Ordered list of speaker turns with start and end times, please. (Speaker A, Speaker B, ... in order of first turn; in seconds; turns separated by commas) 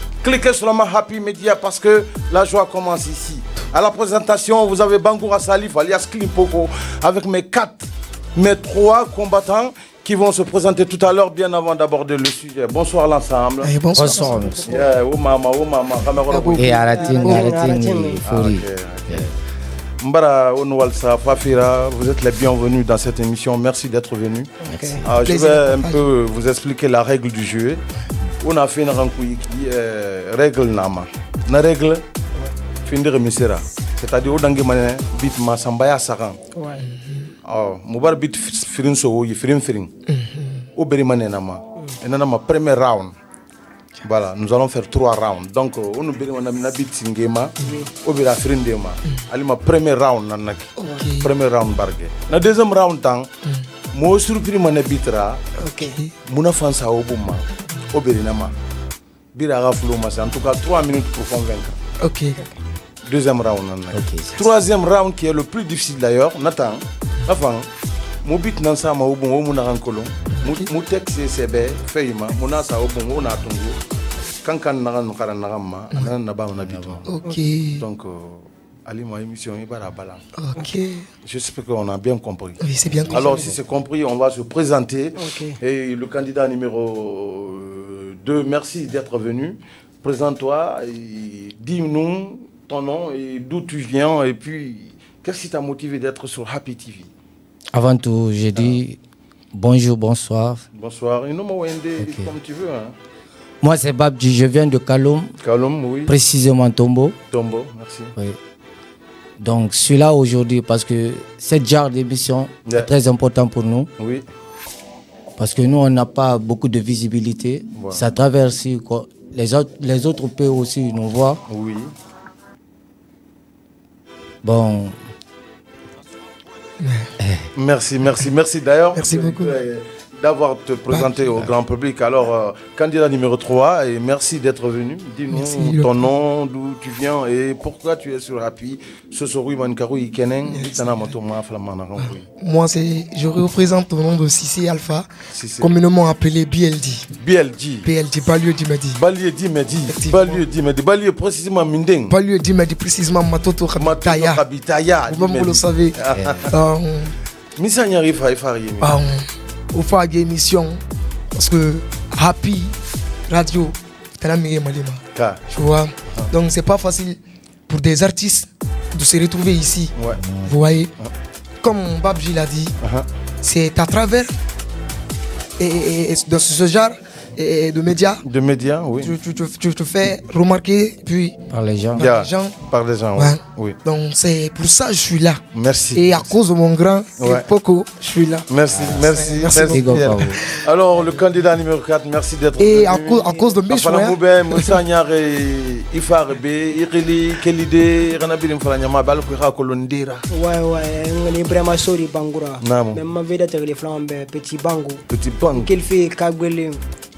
Speaker A: 0.2-13.7, Speaker B: 13.6-14.8, Speaker C: 13.9-14.8, Speaker D: 14.3-14.9, Speaker A: 14.7-17.1, Speaker B: 16.3-17.5, Speaker C: 16.5-19.3, Speaker D: 16.8-18.2, Speaker A: 18.2-19.3, Speaker A: 20.0-27.8, Speaker D: 24.6-25.0, Speaker C: 24.7-25.0, Speaker B: 25.2-26.1, Speaker A: 28.4-32.0, Speaker A: 32.8-36.4, Speaker D: 36.5-36.8, Speaker B: 37.0-37.2, Speaker A: 37.4-39.9, Speaker B: 40.1-40.6, Speaker A: 40.8-43.1, Speaker A: 44.0-53.3, Speaker B: 50.8-51.3, Speaker A: 53.9-55.4, Speaker D: 55.6-56.0, Speaker A: 56.3-58.5, Speaker A: 59.3-61.8, Speaker B: 62.0-62.4, Speaker A: 63.0-67.7, Speaker C: 63.9-64.5, Speaker A: 68.2-73.8, Speaker B: 70.3-70.7, Speaker A: 74.4-77.0, Speaker C: 76.6-77.0, Speaker B: 77.0-77.8, Speaker A: 77.8-80.2, Speaker B: 80.3-81.1, Speaker A: 81.2-97.1, Speaker B: 82.6-83.5, Speaker D: 83.1-83.4, Speaker D: 85.2-85.6, Speaker C: 97.7-99.0, Speaker A: 98.5-98.8, Speaker C: 99.5-100.6, Speaker A: 100.7-102.9, Speaker C: 102.0-102.3, Speaker C: 103.6-105.3, Speaker A: 105.4-106.1, Speaker C: 106.0-107.1, Speaker A: 107.3-108.1, Speaker C: 109.4-113.9, Speaker A: 114.0-114.2, Speaker C: 115.4-121.4, Speaker A: 117.7-118.0, Speaker A: 121.5-121.9, Speaker C: 124.4-125.0, Speaker B: 126.8-127.1, Speaker A: 127.5-142.2, Speaker B: 128.9-129.6, Speaker B: 130.9-131.3, Speaker B: 135.3-136.1, Speaker B: 140.4-141.2, Speaker B: 142.3-147.1, Speaker A: 145.3-145.7, Speaker A: 147.2-147.9, Speaker B: 147.8-149.0, Speaker A: 148.9-152.1, Speaker B: 149.9-150.4, Speaker B: 152.1-154.4, Speaker A: 153.8-156.5, Speaker B: 155.0-157.1, Speaker C: 156.2-156.4, Speaker A: 157.6-158.9, Speaker B: 158.8-160.8, Speaker B: 161.3-162.7, Speaker B: 163.3-170.9, Speaker A: 165.1-165.4, Speaker C: 170.2-170.6, Speaker B: 171.6-172.7, Speaker A: 172.8-173.1, Speaker B: 173.4-174.3, Speaker B: 175.6-178.2, Speaker A: 178.2-179.1, Speaker B: 179.0-181.3, Speaker C: 181.5-182.1, Speaker B: 181.9-182.6, Speaker A: 182.0-183.8, Speaker B: 183.2-185.4, Speaker A: 185.5-186.3, Speaker B: 185.9-190.6, Speaker A: 187.2-187.5, Speaker A: 188.5-200.2, Speaker C: 189.7-190.4, Speaker B: 192.6-194.8, Speaker D: 200.3-205.0, Speaker A: 202.6-203.0, Speaker A: 205.1-205.7, Speaker D: 205.5-206.8